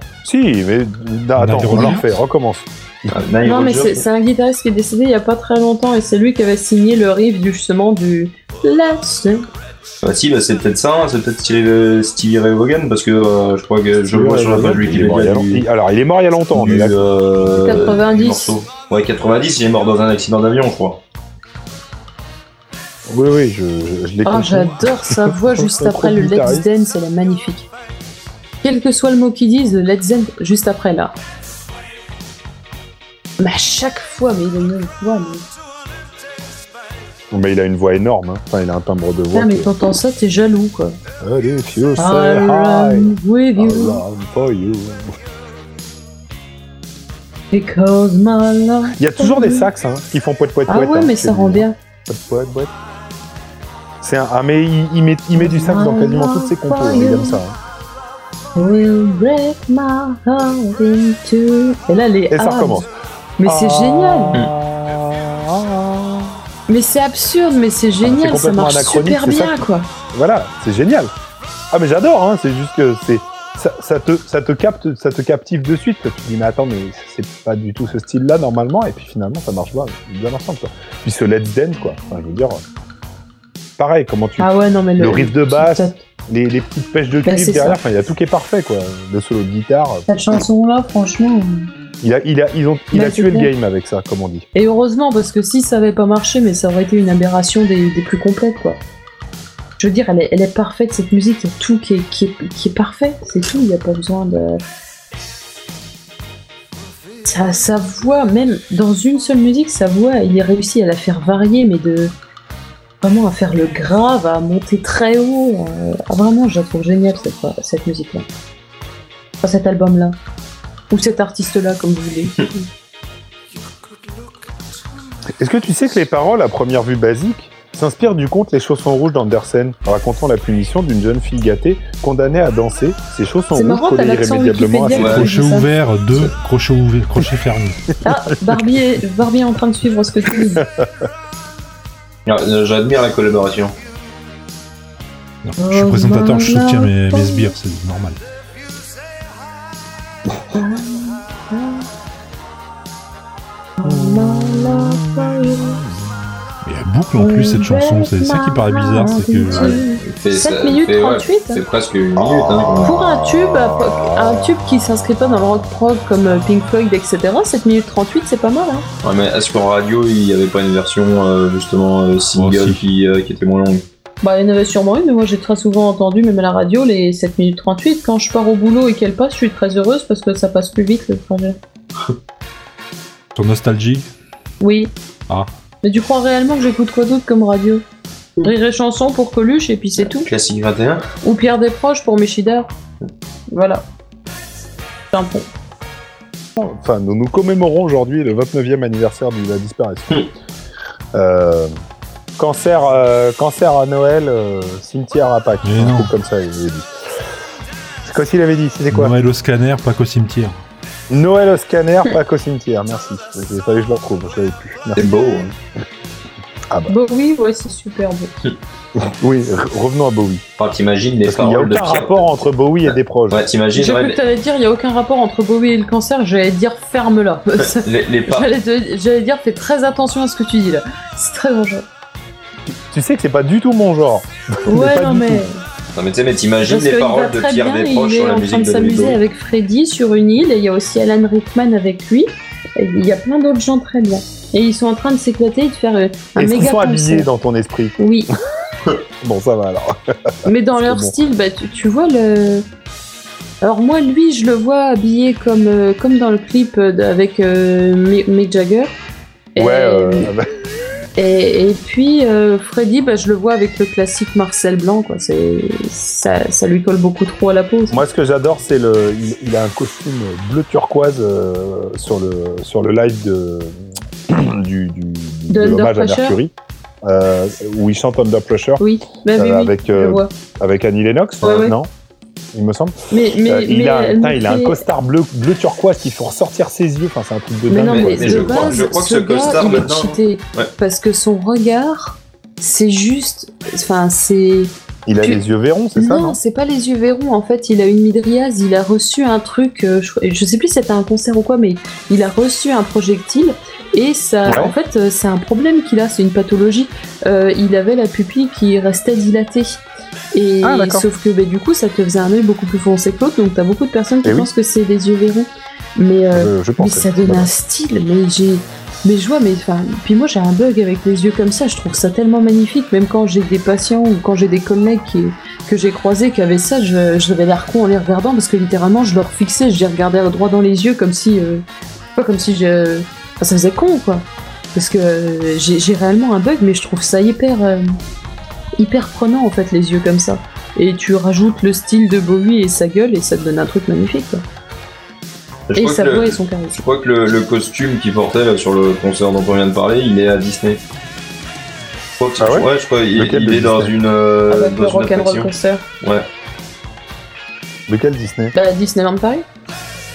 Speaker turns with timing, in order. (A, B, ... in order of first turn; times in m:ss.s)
0:00.2-0:03.2 A
0:01.4-0:02.1 B
0:03.1-0:04.0 C
0:03.4-0:09.4 D
0:10.0-0:15.6 C
0:14.1-0:17.9 A
0:16.5-0:21.0 C
0:17.6-0:18.6 D
0:23.1-0:26.7 A
0:24.2-0:27.7 D
0:28.6-0:31.2 D
0:33.4-0:35.4 D
0:37.3-0:39.7 A
0:39.3-0:41.0 D
0:41.2-0:45.2 A
0:42.0-0:44.0 D
0:47.5-0:49.7 D
0:49.0-0:52.7 A
0:50.7-0:51.8 D
0:54.0-0:57.6 A
0:55.4-0:57.4 D
0:58.6-1:02.9 D
1:02.3-1:02.9 A
1:03.4-1:04.4 D
1:03.4-1:06.3 A
1:06.7-1:09.9 D
1:08.0-1:11.1 A
1:11.7-1:22.6 A
1:23.8-1:30.1 A
1:24.4-1:26.0 D
1:27.2-1:27.8 D
1:30.1-1:31.7 D
1:32.0-1:34.4 A
1:32.9-1:33.5 D
1:34.5-1:38.8 D
1:39.8-1:44.6 D
1:47.2-1:52.1 D
1:53.0-1:58.3 D
1:59.4-2:00.2 D
2:00.9-2:02.7 D
2:05.4-2:15.2 A
2:13.5-2:15.7 D
2:14.9-2:15.3 C
2:14.9-2:17.9 B
2:18.0-2:20.6 D
2:18.3-2:18.8 A
2:20.3-2:21.0 A
2:22.2-2:23.7 C
2:25.4-2:28.2 B
2:25.6-2:27.5 D
2:30.5-2:31.9 D
2:33.8-2:35.8 D
2:33.9-2:35.3 A
2:36.6-2:39.8 B
2:37.2-2:41.6 D
2:39.5-2:43.0 C
2:42.2-2:44.3 A
2:42.8-2:48.8 D
2:49.0-2:53.8 C
2:52.3-2:52.8 B
2:54.2-3:01.6 D
3:03.4-3:04.1 B
3:04.6-3:04.9 D
3:05.8-3:07.8 D
3:08.4-3:10.3 D
3:10.0-3:11.1 C
3:11.2-3:12.7 D
3:13.5-3:13.8 D
3:15.1-3:15.5 D
3:16.6-3:20.2 A
3:21.1-3:21.7 A
3:22.4-3:26.9 A
3:25.6-3:26.1 B
3:28.0-3:29.1 A
3:28.9-3:30.6 B
3:31.1-3:35.0 A
3:35.0-3:35.5 C
3:36.9-3:38.3 D
3:39.0-3:40.4 A
3:40.6-3:42.4 C
3:41.2-3:43.4 A
3:43.3-3:44.2 C
3:43.7-3:51.8 D
3:47.7-3:48.5 C
3:52.9-3:55.4 A
3:54.6-3:55.6 D
3:55.9-3:59.2 C
3:56.6-4:07.3 D
4:06.4-4:08.0 A
4:08.0-4:08.3 D
4:09.2-4:11.2 A
4:10.4-4:12.6 D
4:13.6-4:19.0 D
4:19.5-4:20.3 D
4:19.6-4:20.5 A
4:21.2-4:28.0 D
4:27.9-4:36.5 A
4:35.5-4:36.4 D
4:37.0-4:38.8 A
4:38.8-4:40.3 D
4:39.3-4:41.9 A
4:41.4-4:41.7 D
4:42.5-4:48.8 A
4:43.1-4:44.8 D
4:47.7-4:55.4 D
4:47.8-4:50.7 C
4:55.0-4:56.4 A
4:56.0-5:09.8 D
5:04.5-5:04.7 A
5:10.3-5:31.6 D
5:10.6-5:11.1 A
5:14.2-5:14.5 A
5:16.3-5:17.5 A
5:32.2-5:38.0 D
5:38.8-5:44.4 D
5:45.7-5:50.8 C
5:45.8-5:46.8 D
5:52.2-5:56.3 C
5:52.4-5:53.9 A
5:54.5-5:55.8 D
5:57.9-5:58.5 A
5:58.5-5:59.4 D